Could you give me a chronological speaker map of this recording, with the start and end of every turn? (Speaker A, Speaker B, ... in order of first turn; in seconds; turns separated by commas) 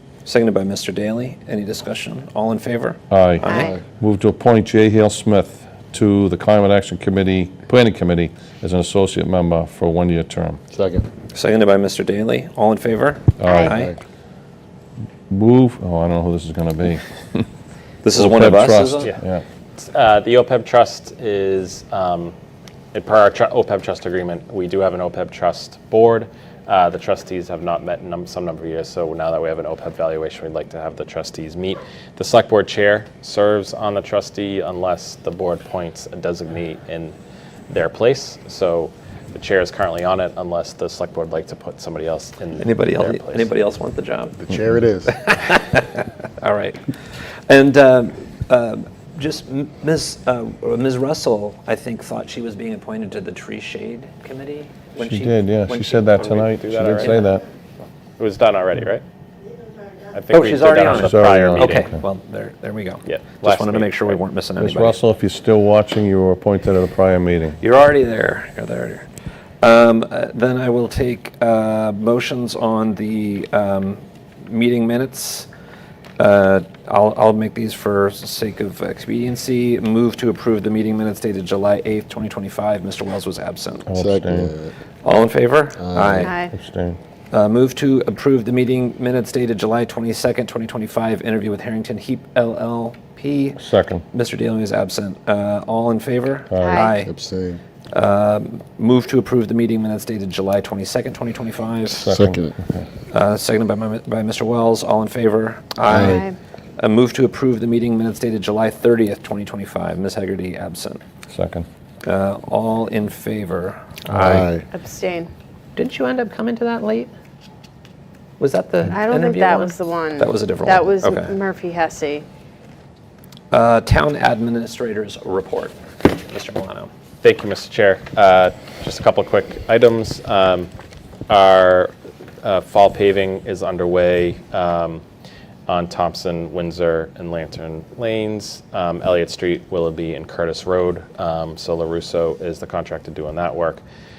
Speaker A: 0.2-3.0, Speaker B: 3.1-10.6, Speaker C: 3.4-3.7, Speaker D: 3.5-3.8, Speaker D: 10.7-11.0, Speaker A: 11.3-13.9, Speaker B: 13.4-13.8, Speaker C: 13.4-13.7, Speaker B: 15.3-17.4, Speaker A: 18.0-19.1, Speaker B: 18.1-19.4, Speaker E: 19.8-22.3, Speaker E: 22.9-37.1, Speaker E: 37.7-43.5, Speaker A: 42.6-44.4, Speaker D: 44.4-45.2, Speaker A: 45.1-56.1, Speaker B: 55.0-57.5, Speaker E: 56.1-57.2, Speaker E: 58.2-59.0, Speaker E: 60.1-61.9, Speaker A: 60.3-65.0, Speaker B: 60.9-62.0, Speaker E: 63.0-64.2, Speaker B: 64.6-67.6, Speaker A: 67.6-69.1, Speaker A: 69.6-75.5, Speaker A: 76.2-83.9, Speaker B: 83.9-84.5, Speaker D: 84.0-84.7, Speaker A: 85.0-86.4, Speaker D: 85.8-86.3, Speaker C: 86.2-86.5, Speaker B: 86.5-87.0, Speaker A: 87.3-97.1, Speaker B: 93.6-94.0, Speaker B: 96.5-96.9, Speaker C: 96.5-96.9, Speaker D: 97.0-97.6, Speaker A: 97.9-102.1, Speaker B: 101.9-102.8, Speaker D: 102.0-102.5, Speaker A: 103.1-111.0, Speaker D: 105.9-106.2, Speaker C: 105.9-106.3, Speaker B: 111.3-111.7, Speaker A: 112.0-114.5, Speaker B: 114.1-114.4, Speaker D: 114.2-114.7, Speaker C: 114.7-115.3, Speaker A: 115.8-117.1, Speaker A: 118.4-121.3, Speaker C: 118.9-122.2, Speaker A: 123.5-126.9, Speaker E: 127.2-130.7, Speaker E: 131.3-135.0, Speaker E: 135.7-143.8